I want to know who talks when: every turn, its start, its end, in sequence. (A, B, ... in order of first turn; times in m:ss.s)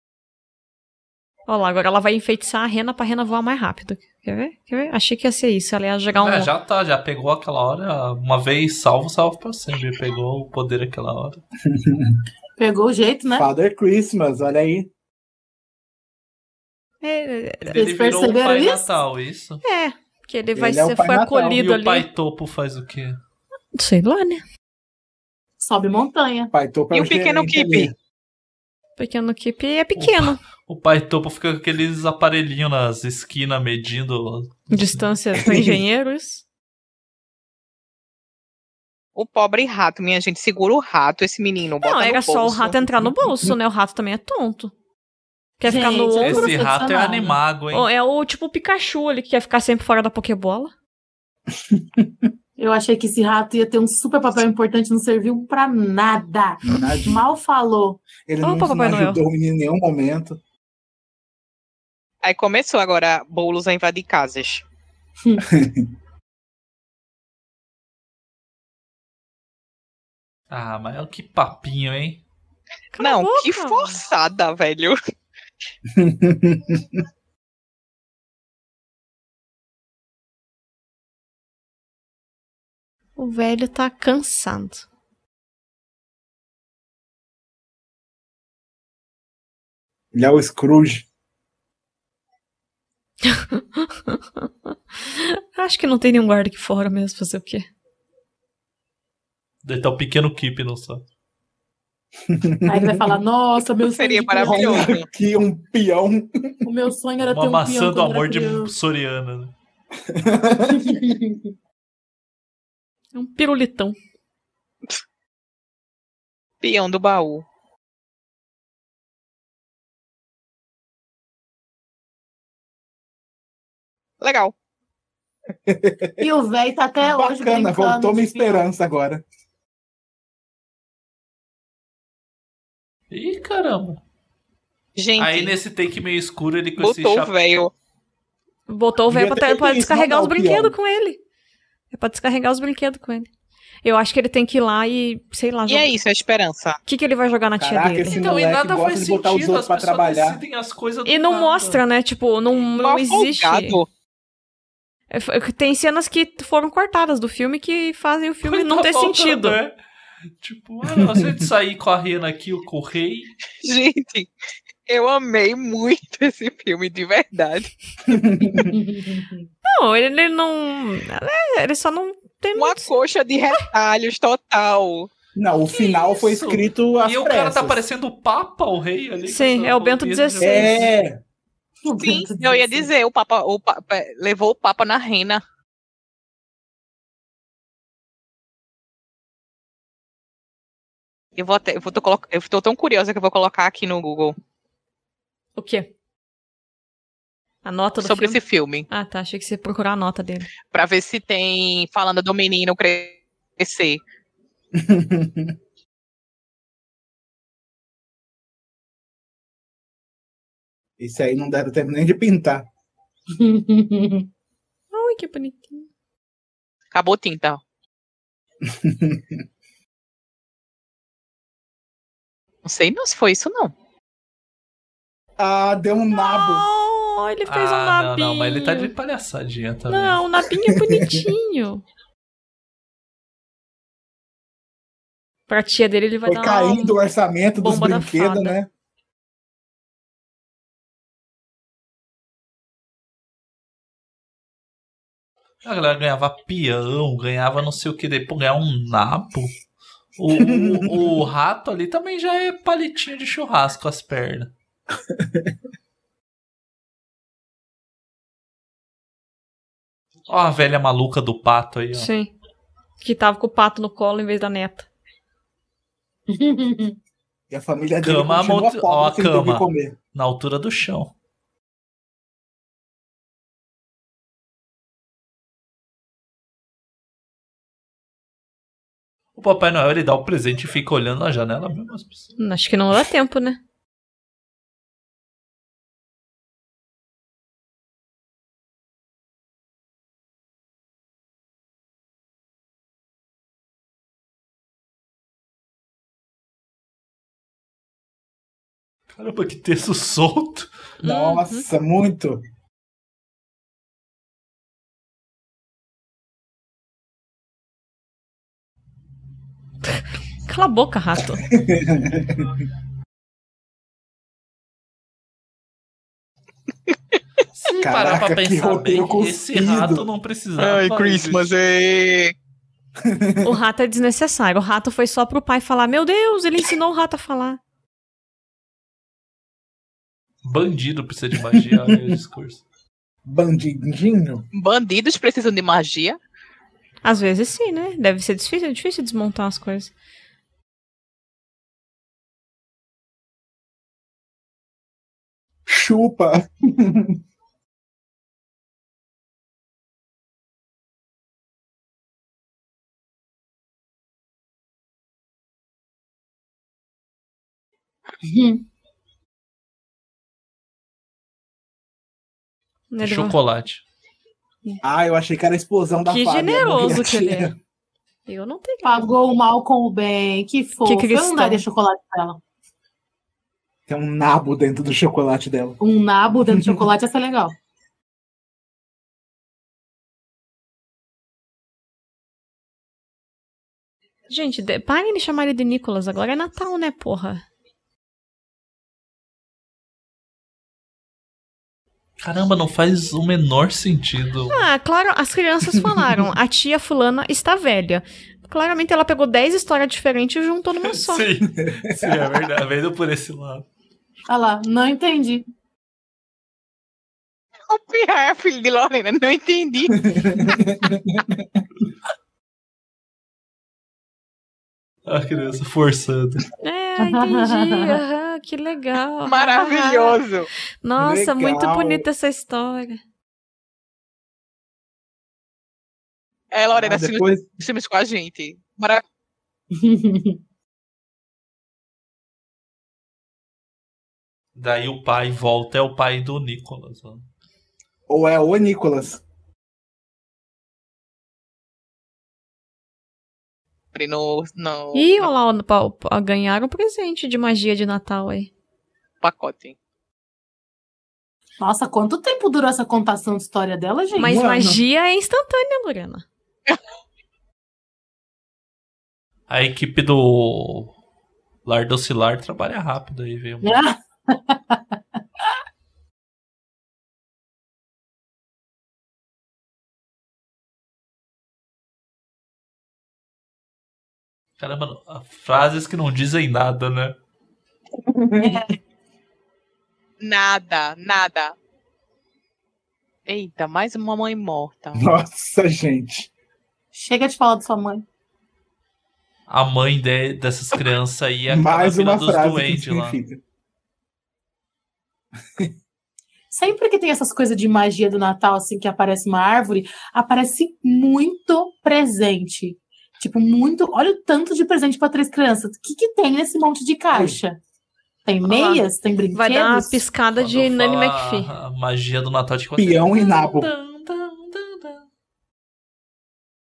0:01.5-0:06.5 A
0:06.2-0:11.4 B
0:11.7-0:12.2 C
0:12.6-0:13.5 D
0:13.3-0:14.9 C
0:17.0-0:17.6 A
0:17.6-0:19.6 B
0:17.7-0:18.9 D
0:19.6-0:22.1 A
0:20.5-0:21.6 C
0:21.5-0:23.2 B
0:23.7-0:24.4 A
0:25.6-0:26.5 D
0:26.5-0:27.9 C
0:26.9-0:27.9 E
0:29.0-0:30.4 A
0:30.0-0:35.0 B
0:34.7-0:36.4 A
0:35.4-0:35.8 C
0:39.2-0:42.8 E
0:41.8-0:44.7 A
0:45.6-0:46.5 A
0:45.6-0:47.4 D
0:46.2-0:47.9 B
0:47.7-0:50.7 A
0:51.8-0:52.1 C
0:52.6-0:58.1 D
0:56.6-0:57.3 C
0:58.2-1:00.4 C
0:58.4-0:59.2 A
1:02.2-1:04.6 E
1:05.5-1:05.8 C
1:10.5-1:12.2 B
1:12.9-1:14.0 A
1:13.0-1:15.0 E
1:15.9-1:17.0 C
1:23.2-1:24.8 A
1:30.1-1:31.0 C
1:33.2-1:34.5 A
1:35.1-1:37.7 A
1:39.6-1:41.0 B
1:42.3-1:43.2 C
1:42.6-1:44.9 D
1:43.8-1:45.0 E
1:44.4-1:46.6 C
1:46.6-1:48.7 D
1:47.2-1:49.5 B
1:50.1-1:51.0 C
1:50.7-1:51.4 D
1:53.1-1:54.0 A
1:56.6-1:57.4 E
2:04.2-2:04.5 E
2:05.7-2:06.2 C
2:06.2-2:08.6 D
2:07.0-2:09.2 C
2:13.1-2:14.0 B
2:15.0-2:15.6 E
2:15.2-2:17.3 B
2:16.8-2:17.7 E
2:18.7-2:21.2 A
2:19.1-2:20.7 C
2:21.9-2:23.3 A
2:23.8-2:25.9 A
2:25.7-2:26.8 E
2:26.8-2:28.3 A
2:27.6-2:30.4 C
2:28.1-2:31.8 B
2:31.0-2:33.8 A
2:32.6-2:33.9 E
2:35.1-2:39.6 A
2:38.4-2:39.8 B
2:40.4-2:43.3 B
2:40.8-2:41.5 C
2:43.6-2:44.3 E
2:44.9-2:47.7 E
2:48.1-2:48.7 C
2:48.7-2:49.5 D
2:49.6-2:52.9 A
2:52.5-2:55.1 E
2:55.3-2:57.8 C
2:55.7-3:00.9 B
2:59.2-3:00.8 A
3:00.4-3:01.2 C
3:01.9-3:02.9 D
3:02.0-3:05.4 E
3:11.4-3:14.4 E
3:15.6-3:15.9 A
3:17.6-3:20.5 A
3:18.0-3:18.9 E
3:20.7-3:24.0 E
3:24.7-3:25.5 C
3:31.0-3:32.7 C
3:33.3-3:34.3 D
3:34.9-3:35.9 A
3:36.9-3:37.6 E
3:38.6-3:39.4 C
3:42.6-3:43.7 E
3:45.4-3:46.7 C
3:46.1-3:48.9 A
3:47.4-3:50.2 B
3:49.9-3:51.8 A
3:50.7-3:51.2 C
3:55.5-3:57.0 A
3:56.2-3:58.7 C
3:57.6-3:58.6 A
4:05.6-4:09.5 B
4:10.2-4:14.5 B
4:10.4-4:11.2 C
4:15.1-4:15.5 C
4:20.3-4:22.1 B
4:21.9-4:22.3 A
4:23.0-4:24.9 A
4:26.3-4:27.0 D
4:27.5-4:30.0 C
4:28.0-4:31.1 B
4:39.3-4:42.3 B
4:42.4-4:43.6 A
4:59.1-5:00.7 B
5:01.0-5:01.6 A
5:01.0-5:02.4 C
5:10.4-5:11.4 A
5:11.5-5:12.5 C
5:17.6-5:21.5 B
5:17.8-5:20.0 C
5:20.6-5:22.3 E
5:23.0-5:23.5 C
5:23.4-5:27.6 A
5:30.4-5:32.6 B
5:31.4-5:32.1 C
5:33.2-5:34.4 C
5:34.5-5:36.2 E
5:37.0-5:39.9 A
5:45.7-5:47.2 C
5:58.2-5:58.6 D
6:02.9-6:03.4 A
6:03.0-6:03.8 B
6:04.8-6:07.6 C
6:06.1-6:07.5 A
6:08.3-6:09.1 A
6:08.8-6:12.4 D
6:10.8-6:11.6 A
6:13.9-6:15.8 C
6:15.8-6:17.5 D
6:16.4-6:16.8 C
6:24.3-6:27.4 A
6:32.2-6:34.6 B
6:34.5-6:41.2 A
6:35.6-6:36.3 C
6:40.8-6:43.6 B
6:41.7-6:42.3 C
6:44.3-6:45.4 D
6:47.7-6:50.0 E
6:50.0-6:51.6 C
6:55.0-6:56.4 B
6:56.6-7:00.2 A
6:57.0-6:58.0 D
6:59.2-7:00.5 E
7:00.8-7:03.0 A
7:01.0-7:02.1 C
7:06.5-7:09.0 E
7:06.7-7:07.4 C
7:09.7-7:10.4 D
7:14.6-7:17.2 B
7:18.1-7:19.2 C
7:23.9-7:25.3 E
7:24.9-7:28.5 A
7:29.2-7:29.7 E
7:31.6-7:34.4 D
7:34.2-7:34.8 C
7:34.2-7:36.2 A
7:39.5-7:40.9 B
7:41.6-7:43.8 B
7:43.6-7:45.0 D
7:54.6-7:57.1 B
7:58.1-7:58.6 C
7:58.4-7:58.6 D
8:00.2-8:01.5 E
8:03.3-8:05.0 E
8:04.9-8:06.3 C
8:06.9-8:08.0 D
8:09.5-8:13.2 B
8:11.5-8:13.4 C
8:16.5-8:27.6 D
8:27.1-8:27.4 C
8:28.2-8:30.0 D
8:28.5-8:31.5 A
8:30.4-8:35.0 B
8:32.8-8:33.7 C